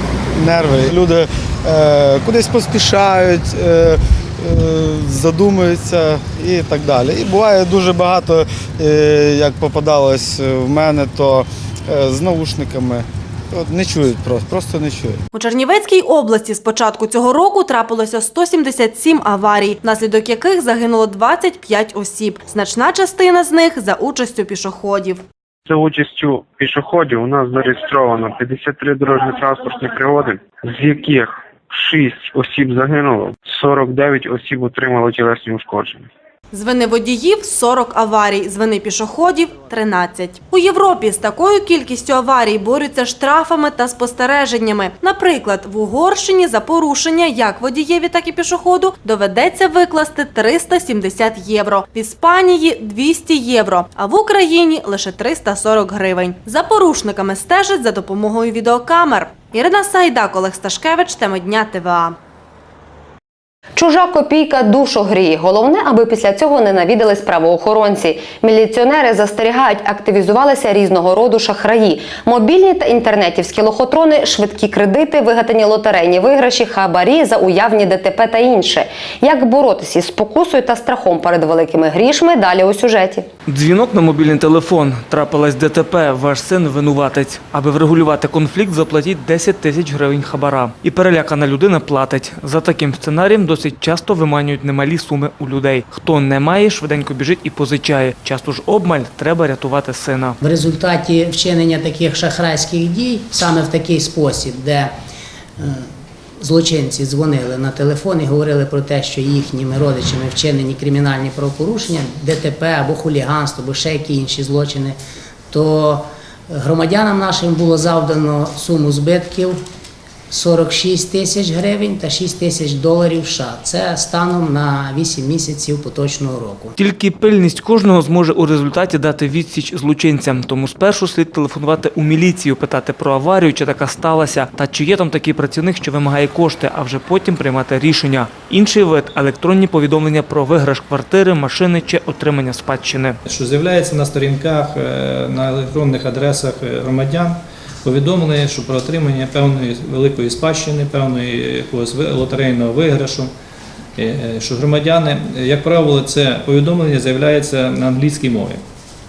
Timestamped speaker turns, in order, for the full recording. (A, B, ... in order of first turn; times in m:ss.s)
0:00.4-0:15.2 A
0:15.3-0:25.2 B
0:25.7-0:36.1 C
0:36.5-1:02.2 B
1:03.8-1:23.3 D
1:23.5-1:40.4 E
1:40.4-1:44.9 F
1:45.6-1:45.9 F
1:46.4-1:55.0 F
1:55.5-1:59.6 F
2:00.3-2:06.7 F
2:06.8-2:23.2 E
2:23.3-2:33.3 G
2:34.0-2:38.6 G